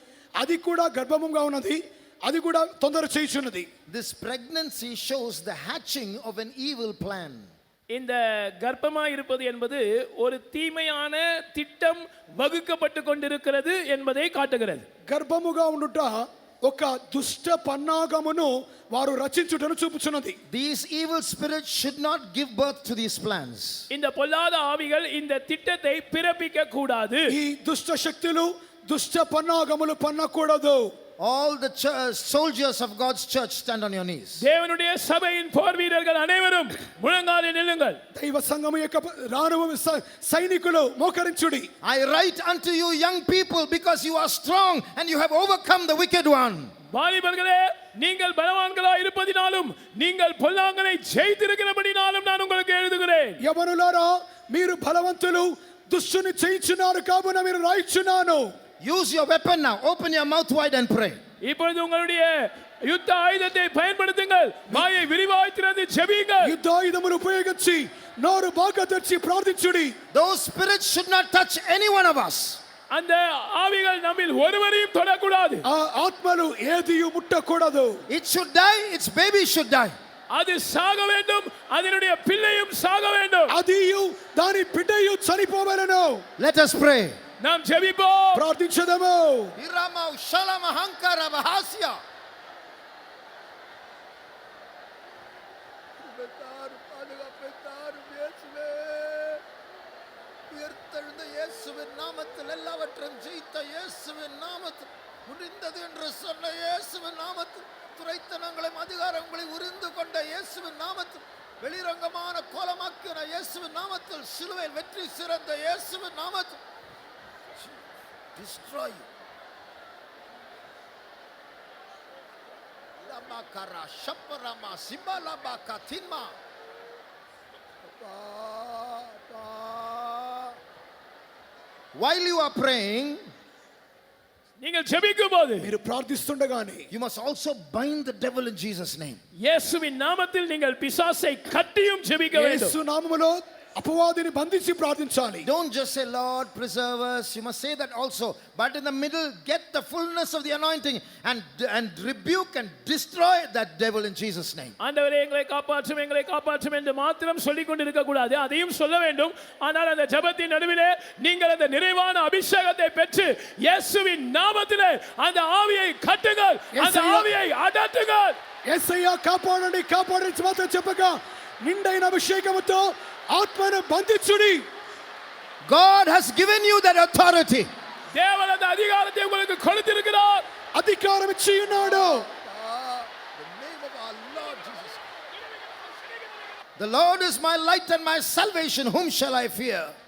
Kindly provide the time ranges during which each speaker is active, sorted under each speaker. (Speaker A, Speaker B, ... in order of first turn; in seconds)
Speaker A: 0.4-3.7, 15.1-20.4, 27.3-30.9, 38.1-41.7, 53.4-58.5, 66.4-70.0, 75.6-78.0, 83.5-86.2, 88.3-89.5, 135.6-136.9, 142.3-145.5, 166.7-167.3, 168.7-174.6, 180.7-182.2
Speaker B: 3.9-7.5, 20.5-23.9, 31.2-34.5, 41.8-46.7, 58.8-61.2, 70.1-72.6, 78.1-79.9, 86.4-87.2, 89.6-92.0, 96.0-99.4, 100.5-116.6, 118.3-119.1, 123.0-126.4, 127.9-130.6, 131.9-133.2, 136.9-139.2, 145.4-154.8, 175.6-177.7, 181.7-185.0, 186.8-189.9
Speaker C: 7.9-14.8, 23.9-27.4, 34.4-38.0, 46.9-53.4, 61.4-66.5, 72.9-75.6, 80.3-83.5, 87.4-88.4, 134.6-135.7, 139.3-142.7, 154.8-168.4, 178.1-180.4